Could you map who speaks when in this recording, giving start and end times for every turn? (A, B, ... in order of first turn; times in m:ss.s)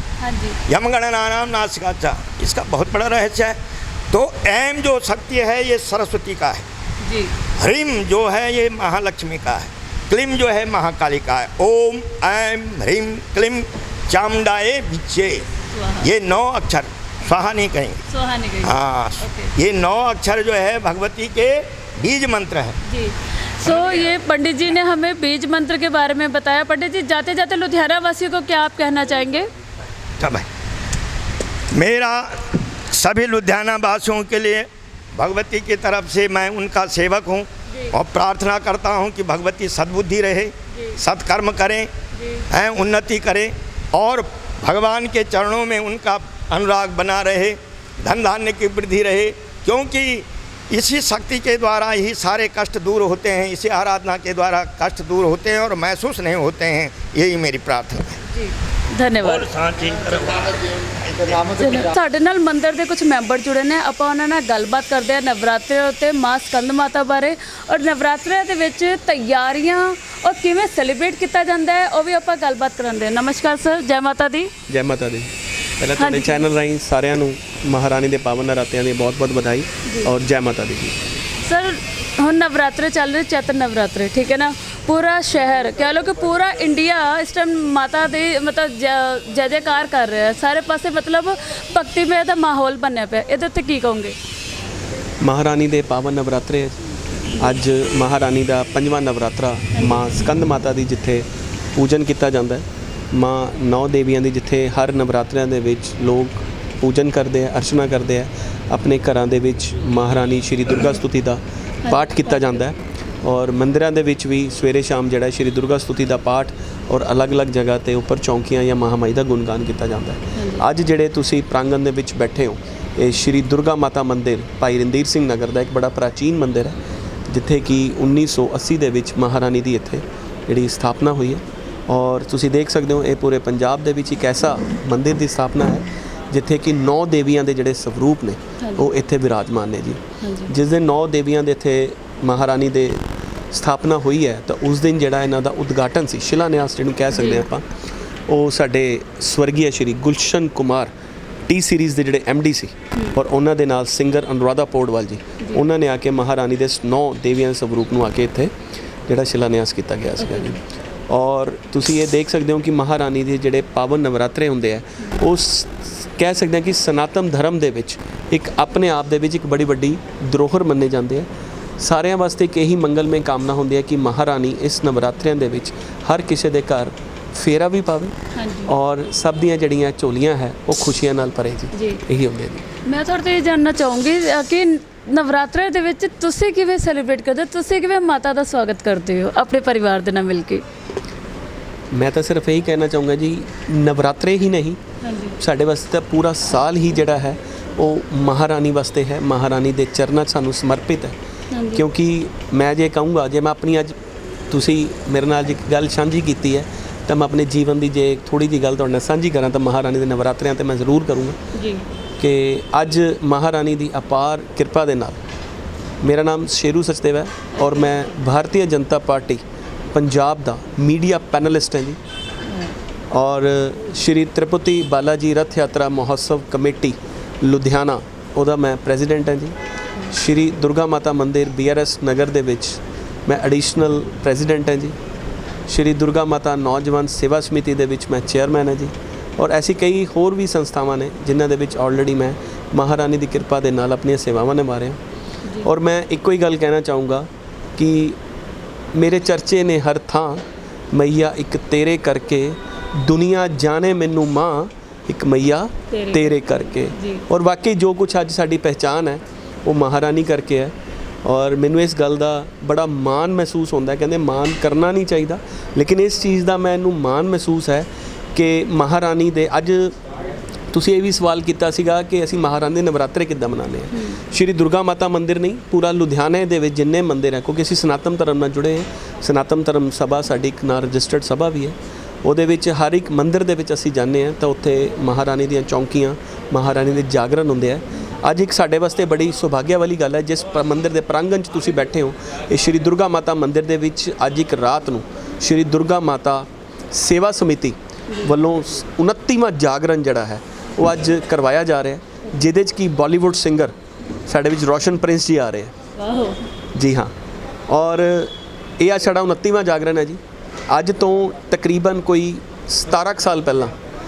0:00.2-0:00.6 A
0:00.7-0:03.6 B
0:04.1-0:06.6 B
0:07.0-0:07.3 A
0:07.6-0:15.4 B
0:15.7-0:16.1 A
0:16.0-0:18.0 B
0:18.1-0:19.5 A
0:18.6-0:22.8 B
0:22.8-0:29.5 A
0:23.6-0:24.0 B
0:30.2-0:30.5 B
0:31.7-0:41.9 B
0:37.7-0:37.9 A
0:40.7-0:41.0 A
0:42.1-0:42.4 A
0:42.5-0:58.2 B
0:58.3-0:59.4 A
0:59.2-1:01.8 B
1:01.6-1:14.5 A
1:14.7-1:21.0 C
1:16.0-1:16.5 A
1:19.8-1:20.1 A
1:21.4-1:34.2 A
1:35.2-1:36.7 C
1:37.4-2:27.7 C
1:39.8-1:40.1 A
1:51.8-1:52.6 A
2:00.3-2:00.6 A
2:18.6-2:18.9 A
2:20.2-2:20.5 A
2:27.1-2:27.5 A
2:28.3-2:30.9 C
2:31.5-2:38.5 C
2:39.1-2:51.3 C
2:40.2-2:40.6 A
2:51.8-2:58.1 C
2:58.3-2:58.7 A
2:58.7-3:02.6 C
3:01.7-3:02.0 A
3:02.8-3:10.6 A
3:11.9-3:14.8 C
3:15.0-3:15.4 A
3:15.4-3:21.1 C
3:21.5-3:21.8 A
3:21.7-3:24.0 C
3:24.5-3:31.4 C
3:31.5-3:31.8 A
3:32.2-3:35.2 C
3:36.0-3:39.4 C
3:37.5-3:37.9 A
3:39.9-3:42.0 C
3:42.5-3:42.7 A
3:43.1-3:49.5 C
3:50.1-3:54.9 C
3:55.7-4:05.0 C
4:05.4-4:05.7 A
4:05.6-4:08.2 C
4:08.9-4:20.7 C
4:15.9-4:17.2 A
4:21.2-4:30.0 C
4:30.7-5:03.7 C
4:33.9-4:34.2 A
5:04.3-5:05.7 C
5:06.0-5:06.4 A
5:06.7-5:07.1 C
5:07.7-5:13.7 C